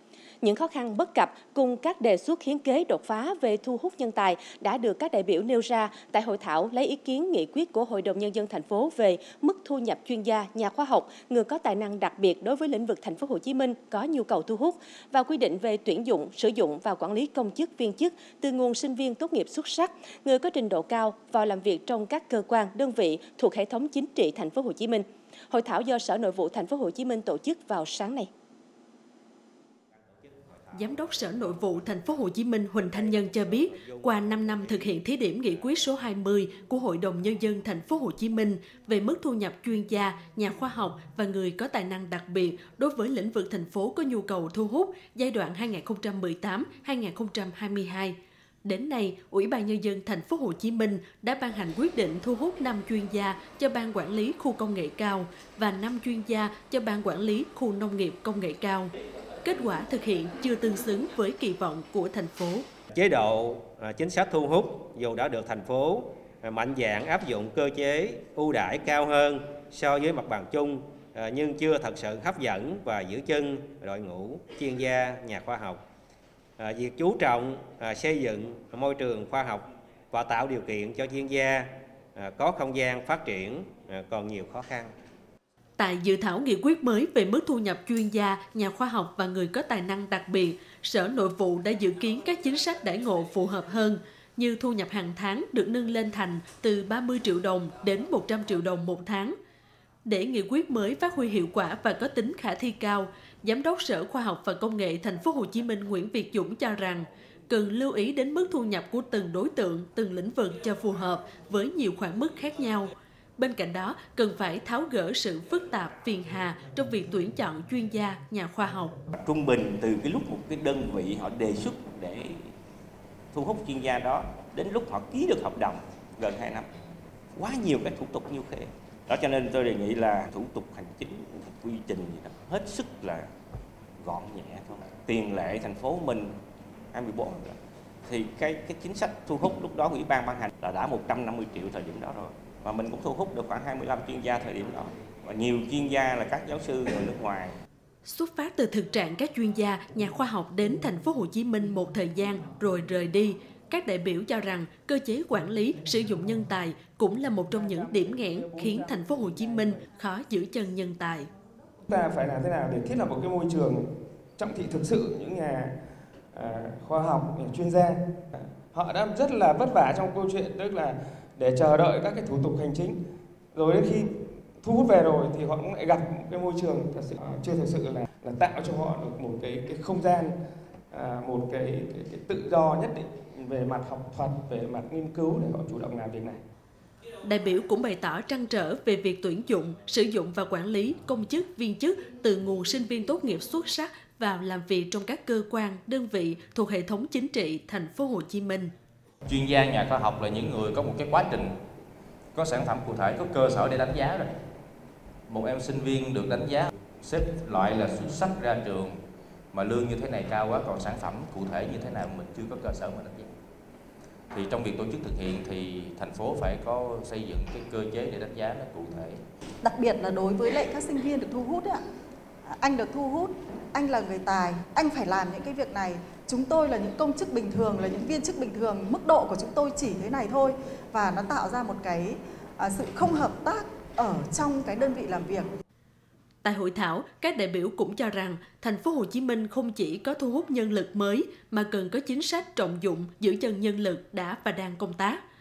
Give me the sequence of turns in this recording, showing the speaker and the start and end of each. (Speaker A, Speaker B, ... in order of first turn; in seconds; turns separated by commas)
Speaker A: 0.4-28.3, Speaker B: 30.7-58.9, Speaker B: 59.4-62.6, Speaker C: 62.9-75.8, Speaker C: 76.6-84.9, Speaker B: 85.8-99.3, Speaker B: 100.0-119.0, Speaker D: 119.1-122.5, Speaker D: 123.3-126.7, Speaker D: 127.3-133.3, Speaker D: 134.0-136.4, Speaker D: 136.9-147.6, Speaker B: 148.0-161.3, Speaker E: 157.5-159.8, Speaker E: 161.9-163.9, Speaker E: 164.4-165.7, Speaker E: 166.3-173.0, Speaker E: 173.6-174.1, Speaker E: 174.6-180.3, Speaker E: 180.9-186.4, Speaker B: 187.2-198.7, Speaker F: 199.3-201.5, Speaker F: 202.3-204.3, Speaker F: 205.3-209.0, Speaker F: 209.5-213.3, Speaker F: 214.3-219.2, Speaker G: 219.6-221.8, Speaker G: 222.5-235.5, Speaker B: 236.4-245.2